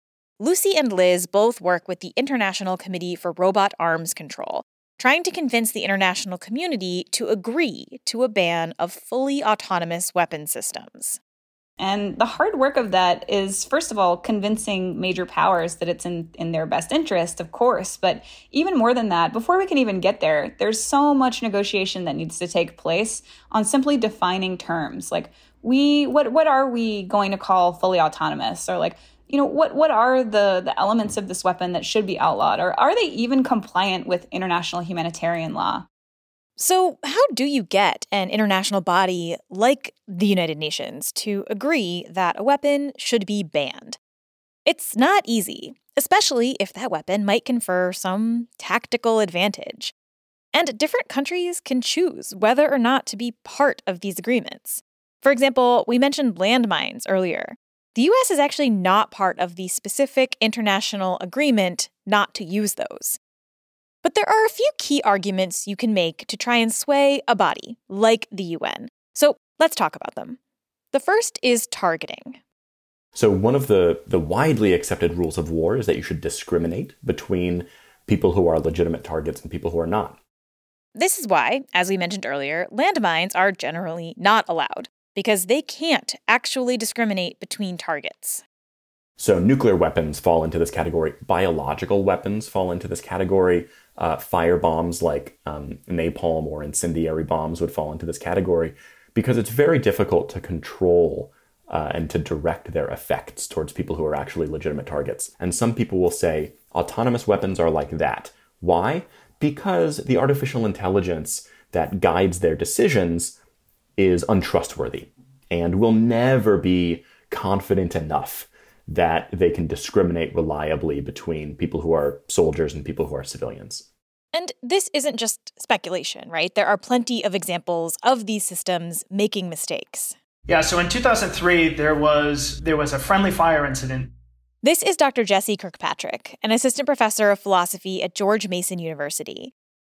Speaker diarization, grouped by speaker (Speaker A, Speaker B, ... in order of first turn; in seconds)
Speaker A: 0.4-11.2, 36.6-44.0, 44.6-49.9, 50.5-63.2, 64.0-70.4, 70.9-72.4, 80.9-88.4, 124.3-130.1, 134.6-139.5
Speaker B: 11.8-35.9
Speaker C: 73.1-80.2, 89.2-113.4, 114.0-123.9
Speaker D: 130.5-134.1